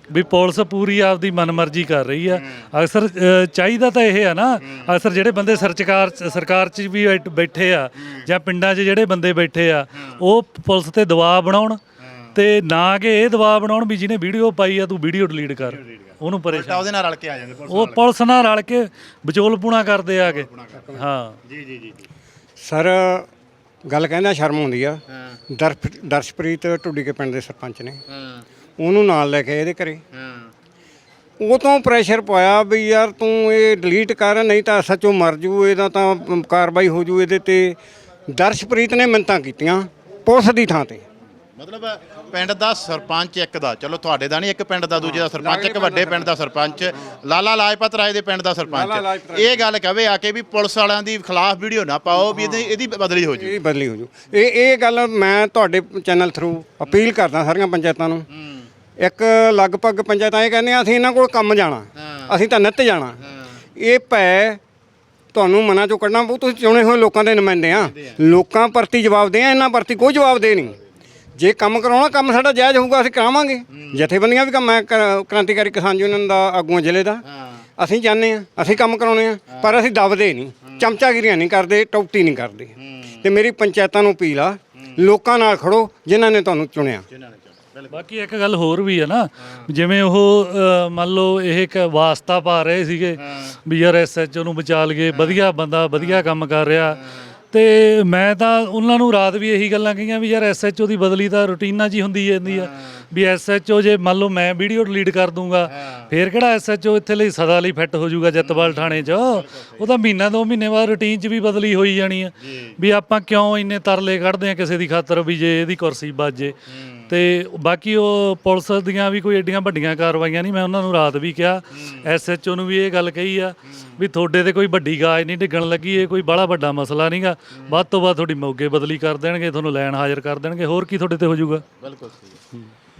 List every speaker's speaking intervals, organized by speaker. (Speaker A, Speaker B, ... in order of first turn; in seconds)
Speaker A: 0.1-11.8, 12.3-16.8, 17.7-21.3, 87.9-97.0, 97.5-116.5, 117.1-131.6
Speaker B: 2.3-2.6, 12.0-12.3, 15.6-18.0, 20.2-22.1, 25.1-25.4, 28.1-28.4, 30.1-30.5, 41.6-53.5, 58.3-58.7, 62.0-62.3, 63.2-63.6, 67.7-68.2, 73.7-74.0, 77.3-77.6, 82.8-83.2, 87.1-88.0, 93.2-93.5, 95.1-95.4, 97.0-97.3, 102.5-103.0, 105.7-106.1, 108.4-109.8, 112.4-112.7, 116.7-117.1, 131.8-132.4
Speaker C: 22.6-23.2, 23.9-25.0, 25.5-28.0, 28.8-30.0, 31.4-37.8, 38.3-41.0, 45.1-46.2, 48.7-49.6, 52.2-52.7, 53.4-58.2, 59.0-63.2, 63.8-64.6, 65.3-70.7, 71.4-77.2, 77.8-87.0